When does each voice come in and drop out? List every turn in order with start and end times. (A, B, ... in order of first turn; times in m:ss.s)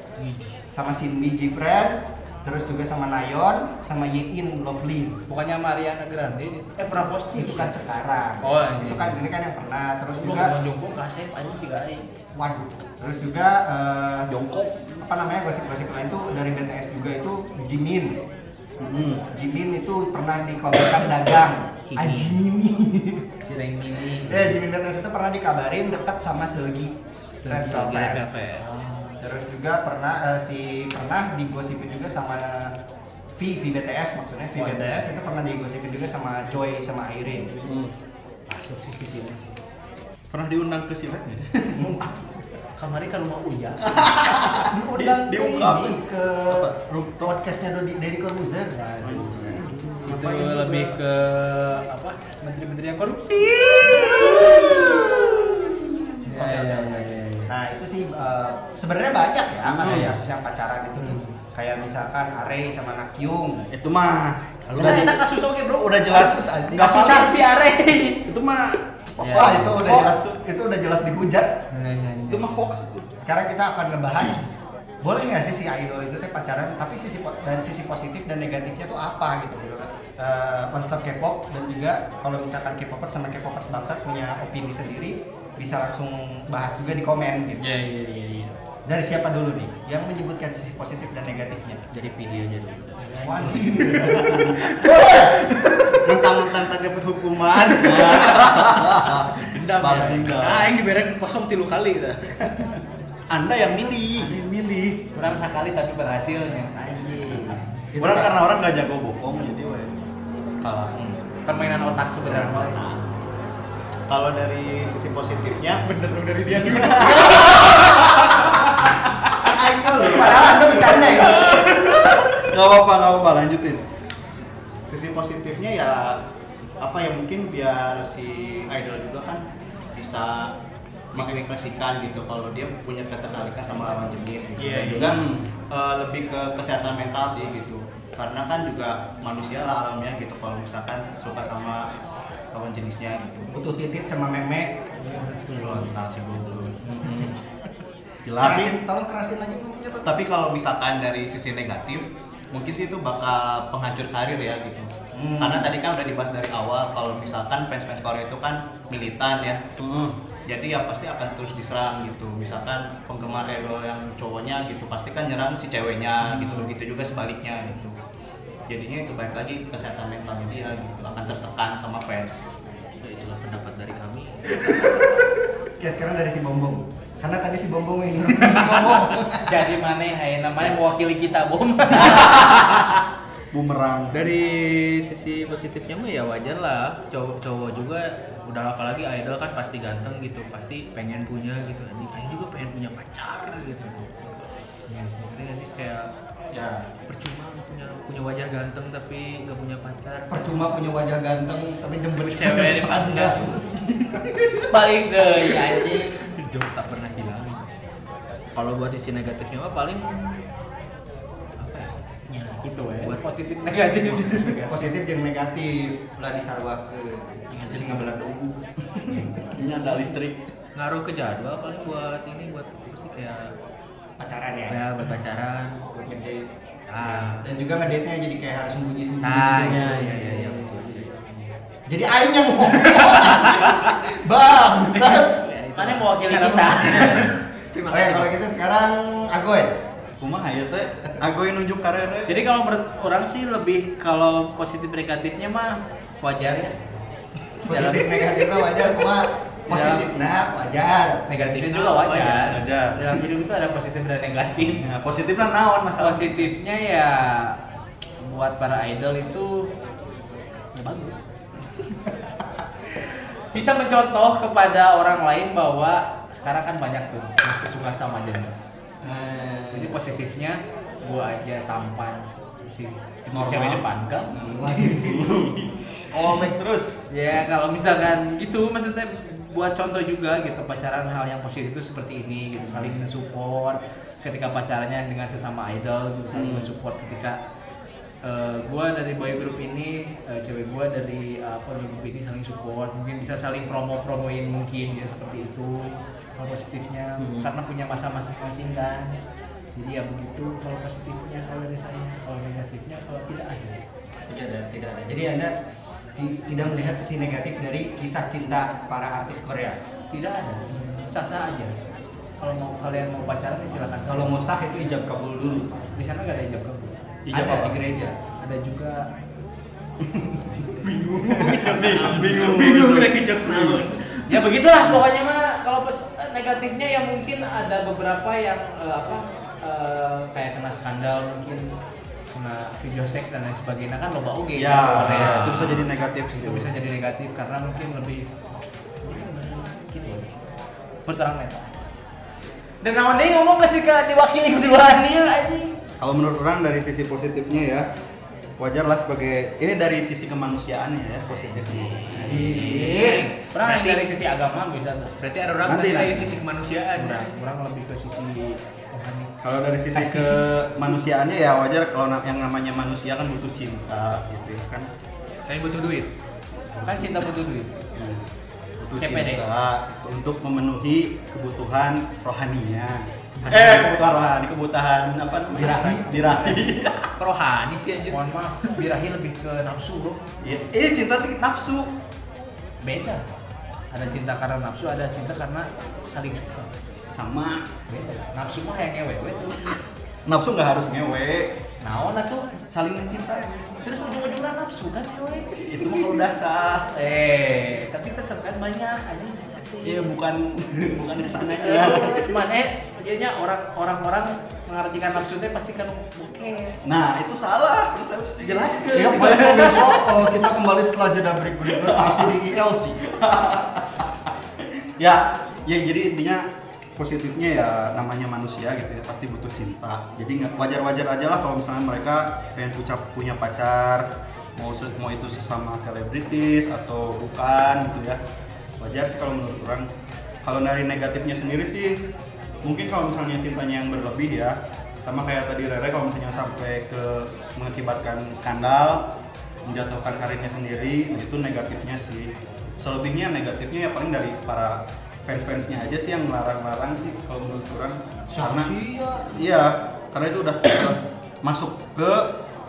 0:00.2-0:00.6 A
0:00.7-0:05.3 B
0:05.3-0:07.7 C
0:07.3-0:10.5 B
0:08.4-0:09.2 C
0:10.2-0:12.0 C
0:12.3-0:18.2 B
0:14.3-0:14.8 D
0:18.8-0:19.2 D
0:19.3-0:23.3 B
0:21.9-0:22.3 A
0:23.4-0:24.5 C
0:24.2-0:26.9 B
0:27.4-0:28.0 C
0:27.4-0:29.2 A
0:27.5-0:28.2 B
0:29.2-0:32.7 B
0:33.4-0:37.6 B
0:34.6-0:35.0 C
0:37.6-0:37.9 D
0:38.5-0:39.6 C
0:40.3-0:41.8 D
0:41.8-0:42.1 B
0:42.8-0:44.1 C
0:43.8-0:47.3 D
0:44.1-0:48.8 B
0:48.7-0:54.9 C
0:49.0-0:51.0 D
0:49.3-0:49.6 B
0:53.9-0:56.5 D
0:56.2-0:57.5 C
0:56.4-1:03.7 B
0:59.6-1:00.2 D
1:01.0-1:01.4 C
1:03.7-1:07.3 D
1:04.7-1:06.0 C
1:04.8-1:05.1 B
1:06.1-1:07.4 B
1:06.7-1:08.2 C
1:08.2-1:10.2 D
1:09.2-1:11.6 B
1:09.2-1:09.8 C
1:11.7-1:12.6 C
1:12.3-1:13.1 D
1:13.2-1:27.6 B
1:27.6-1:28.6 C
1:28.8-1:31.8 B
1:31.9-1:35.6 A
1:33.0-1:33.6 C
1:33.1-1:35.4 B
1:34.0-1:34.4 D
1:36.1-1:37.7 E
1:37.8-1:40.7 D
1:38.0-1:38.4 A
1:39.4-1:42.7 A
1:43.3-1:45.0 D
1:45.1-1:47.6 C
1:47.9-1:48.4 B
1:48.0-1:49.9 D
1:50.6-1:50.9 D
1:51.4-1:52.8 C
1:52.2-1:53.0 E
1:54.1-1:55.8 E
1:55.8-1:57.6 A
1:56.7-1:58.9 D
1:57.0-1:58.0 B
1:59.4-2:00.4 E
2:00.0-2:01.4 B
2:00.3-2:01.6 D
2:01.4-2:01.9 A
2:02.4-2:03.8 D
2:04.9-2:06.2 E
2:06.8-2:10.5 E
2:11.1-2:15.2 E
2:14.6-2:15.0 C
2:14.9-2:15.5 D
2:15.7-2:21.9 E
2:22.5-2:23.5 E
2:23.5-2:24.8 B
2:25.0-2:25.9 C
2:25.6-2:27.0 E
2:27.0-2:27.3 D
2:28.2-2:28.7 D
2:28.4-2:30.1 B
2:30.0-2:39.6 E
2:35.1-2:35.7 B
2:39.8-2:40.2 D
2:40.4-2:48.0 E
2:48.7-2:52.4 E
2:53.0-2:54.9 A
2:55.8-2:59.5 B
2:59.5-3:02.9 C
3:03.5-3:04.3 D
3:04.1-3:14.4 A
3:14.9-3:15.3 C
3:15.2-3:16.1 A
3:16.5-3:16.8 B
3:17.1-3:20.6 A
3:20.3-3:23.7 B
3:22.2-3:23.6 A
3:24.7-3:26.2 C
3:26.2-3:27.7 A
3:28.5-3:30.4 A
3:31.6-3:31.9 A
3:32.3-3:34.7 C
3:33.0-3:33.3 A
3:34.0-3:34.7 A
3:34.7-3:38.6 B
3:37.6-3:38.0 A
3:39.1-3:40.4 D
3:39.6-3:40.1 A
3:40.7-3:43.5 A
3:44.2-3:44.8 B
3:44.7-3:45.8 A
3:45.9-3:46.4 B
3:46.9-3:47.4 A
3:47.0-3:50.4 B
3:49.2-3:51.1 A
3:49.6-3:50.6 C
3:51.9-3:55.4 B
3:53.2-3:53.9 A
3:55.0-3:58.3 A
3:55.8-3:57.3 C
3:56.9-3:57.3 B
3:57.9-3:59.7 B
4:00.2-4:02.4 D
4:02.3-4:06.7 C
4:07.6-4:11.2 B
4:07.7-4:08.4 C
4:09.7-4:10.1 C
4:11.3-4:14.8 C
4:11.4-4:12.6 A
4:12.4-4:13.2 D
4:14.6-4:16.4 D
4:16.0-4:17.6 C
4:18.2-4:19.7 C
4:20.7-4:21.2 C
4:22.9-4:28.6 C
4:29.0-4:29.9 D
4:29.7-4:34.3 C
4:33.3-4:37.0 D
4:34.5-4:35.3 B
4:37.1-4:47.4 C
4:46.3-4:46.7 D
4:48.2-4:59.1 C
4:57.2-4:57.4 A
4:59.7-5:03.8 C
5:04.3-5:05.6 B
5:06.2-5:09.8 B
5:10.1-5:11.7 C
5:12.4-5:14.4 C
5:14.0-5:15.9 B
5:16.0-5:16.9 C
5:17.2-5:17.8 D
5:17.3-5:18.1 B
5:18.4-5:19.1 C
5:20.0-5:23.9 D
5:21.2-5:24.0 A
5:21.8-5:22.3 C
5:24.3-5:31.7 C
5:32.3-5:38.3 C
5:34.6-5:36.7 D
5:35.0-5:35.8 A
5:39.0-5:40.3 C
5:41.0-5:41.7 C
5:42.8-5:45.7 C
5:46.0-5:47.9 D
5:48.6-5:52.9 D
5:51.6-5:55.1 C
5:52.2-5:53.2 B
5:52.3-5:54.0 A
5:55.2-5:57.3 A
5:55.6-5:56.3 D
5:56.9-5:59.3 C
5:59.4-6:04.9 D
6:05.5-6:06.1 A
6:06.8-6:07.8 C
6:08.0-6:08.2 D
6:08.8-6:17.1 D
6:09.0-6:09.4 C
6:13.5-6:13.8 A
6:15.5-6:16.6 B
6:17.2-6:18.2 A
6:18.1-6:20.2 C
6:20.4-6:21.9 D
6:22.8-6:23.2 C
6:23.9-6:26.7 C
6:27.1-6:27.6 D
6:27.9-6:29.7 C
6:30.2-6:31.6 D
6:31.8-6:32.5 C
6:32.7-6:33.8 D
6:33.8-6:35.5 C
6:35.5-6:36.9 D
6:36.9-6:40.1 C
6:39.8-6:42.4 D
6:41.6-6:46.8 C
6:46.8-6:50.0 D
6:48.4-6:49.9 C
6:48.9-6:53.0 B
6:51.6-6:54.1 D
6:55.0-7:08.2 D
7:08.8-7:09.9 D
7:10.4-7:12.0 D
7:12.6-7:19.1 D
7:19.6-7:28.7 D
7:28.3-7:29.3 B
7:29.3-7:32.3 D